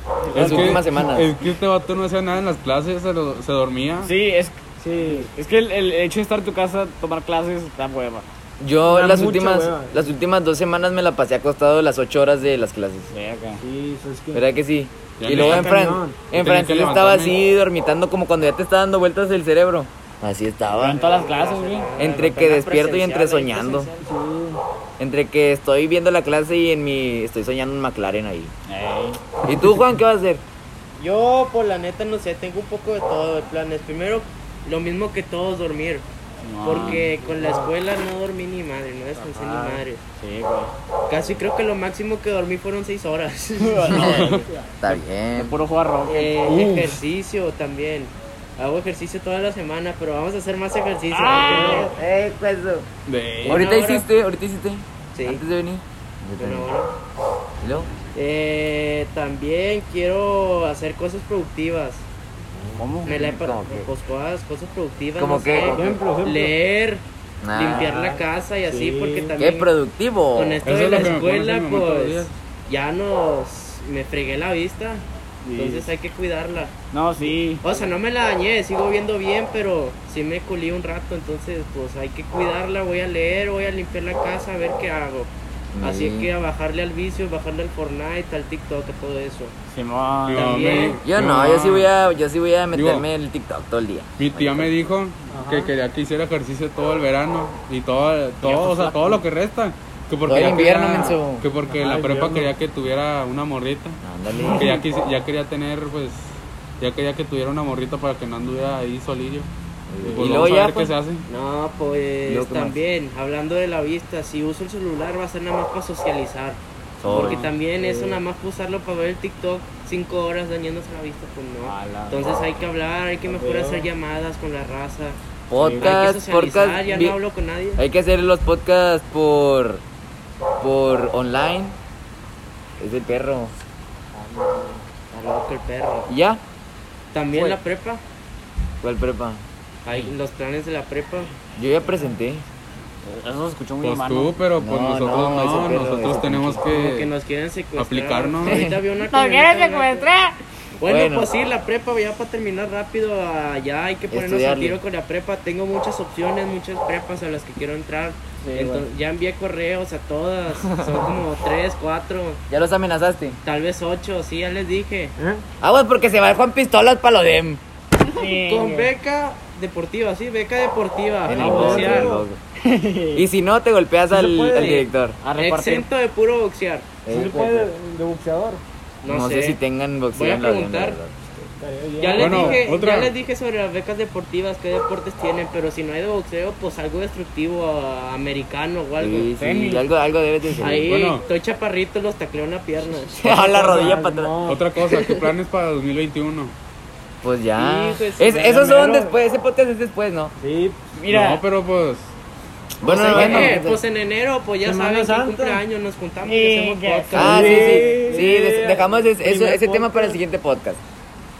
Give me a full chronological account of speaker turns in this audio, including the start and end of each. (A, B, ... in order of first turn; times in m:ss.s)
0:00.2-0:00.8 A
0:00.3-0:04.1 B
0:00.3-0:01.3 C
0:00.4-0:00.7 D
0:04.0-0:08.3 D
0:04.8-0:05.3 A
0:08.6-0:13.1 C
0:08.9-0:10.1 A
0:13.1-0:13.6 D
0:13.6-0:14.4 A
0:14.3-0:21.0 C
0:15.2-0:15.7 B
0:15.3-0:16.2 A
0:16.3-0:17.4 B
0:20.7-0:21.9 D
0:20.8-0:24.0 E
0:22.0-0:23.9 C
0:24.0-0:24.6 A
0:25.0-0:28.5 C
0:28.7-0:29.2 D
0:29.4-0:30.4 C
0:31.0-0:36.0 E
0:36.4-0:37.1 D
0:36.6-0:40.0 E
0:36.8-0:37.7 A
0:39.2-0:40.7 D
0:41.1-0:44.5 E
0:43.6-0:46.3 D
0:43.9-0:44.4 B
0:44.8-0:45.6 C
0:46.0-0:51.9 E
0:46.4-0:47.0 B
0:51.1-0:51.9 D
0:51.4-0:51.8 A
0:51.6-0:52.9 C
0:53.0-0:53.6 B
0:53.4-0:54.1 E
0:53.4-0:56.7 C
0:55.1-0:55.4 E
0:56.4-0:56.9 E
0:57.6-0:57.9 C
0:58.1-1:02.0 E
1:02.8-1:03.1 D
1:03.0-1:09.7 E
1:03.0-1:03.9 C
1:05.2-1:06.0 C
1:05.7-1:06.5 A
1:07.4-1:07.9 C
1:07.7-1:09.3 A
1:09.4-1:10.6 C
1:10.3-1:16.7 E
1:10.6-1:12.4 B
1:15.4-1:15.9 D
1:16.9-1:17.6 D
1:17.6-1:29.5 E
1:25.7-1:26.3 C
1:29.7-1:30.9 D
1:30.3-1:31.9 B
1:30.3-1:31.0 E
1:31.0-1:34.7 C
1:32.7-1:33.1 B
1:34.2-1:44.0 B
1:35.3-1:35.7 A
1:38.4-1:39.2 D
1:40.2-1:41.4 C
1:41.6-1:42.5 A
1:44.0-1:44.8 C
1:44.4-1:44.7 D
1:44.5-1:49.5 B
1:49.9-1:50.9 C
1:50.0-1:50.5 D
1:50.1-1:51.2 B
1:51.2-2:05.2 E
1:52.2-1:52.8 C
1:57.0-1:58.2 D
1:57.0-1:57.4 C
2:01.6-2:02.4 D
2:03.3-2:03.9 D
2:05.5-2:07.2 C
2:05.6-2:06.0 D
2:05.8-2:07.8 E
2:07.8-2:09.8 C
2:10.6-2:11.8 C
2:12.8-2:13.5 C
2:14.4-2:16.1 E
2:16.1-2:16.4 C
2:17.1-2:18.0 E
2:18.8-2:19.4 C
2:19.8-2:21.3 E
2:21.6-2:22.4 C
2:23.0-2:24.4 D
2:23.8-2:27.1 B
2:24.6-2:26.6 C
2:26.7-2:30.1 E
2:27.8-2:28.7 B
2:28.4-2:28.8 C
2:29.0-2:30.4 D
2:30.8-2:31.3 C
2:30.8-2:42.4 E
2:34.1-2:34.8 C
2:38.4-2:38.8 D
2:40.7-2:41.0 C
2:42.5-2:43.4 C
2:43.4-2:45.1 E
2:45.2-2:45.4 A
2:45.6-2:47.6 C
2:48.0-2:48.9 D
2:48.2-2:52.2 E
2:51.2-2:52.4 C
2:51.3-2:52.2 A
2:52.6-2:53.3 D
2:53.1-2:55.2 C
2:54.1-2:54.9 A
2:54.5-2:54.8 E
2:55.2-2:55.9 D
2:55.4-2:56.9 E
2:57.0-2:57.7 C
2:57.1-2:58.6 A
2:59.0-2:59.6 E
2:59.0-3:01.5 C
3:00.1-3:01.0 E
3:01.6-3:02.7 A
3:02.0-3:09.3 E
3:02.2-3:03.1 B
3:09.0-3:10.9 C
3:09.4-3:09.8 D
3:10.6-3:13.3 E
3:10.8-3:11.2 B
3:13.1-3:15.2 C
3:13.2-3:14.7 A
3:14.4-3:16.5 B
3:17.2-3:20.3 C
3:17.5-3:19.1 E
3:20.4-3:20.8 A
3:20.9-3:21.4 D
3:21.1-3:22.1 B
3:22.8-3:23.8 C
3:22.8-3:27.8 E
3:22.9-3:23.6 B
3:24.6-3:25.6 A
3:26.2-3:28.2 D
3:27.1-3:30.8 C
3:27.2-3:30.2 A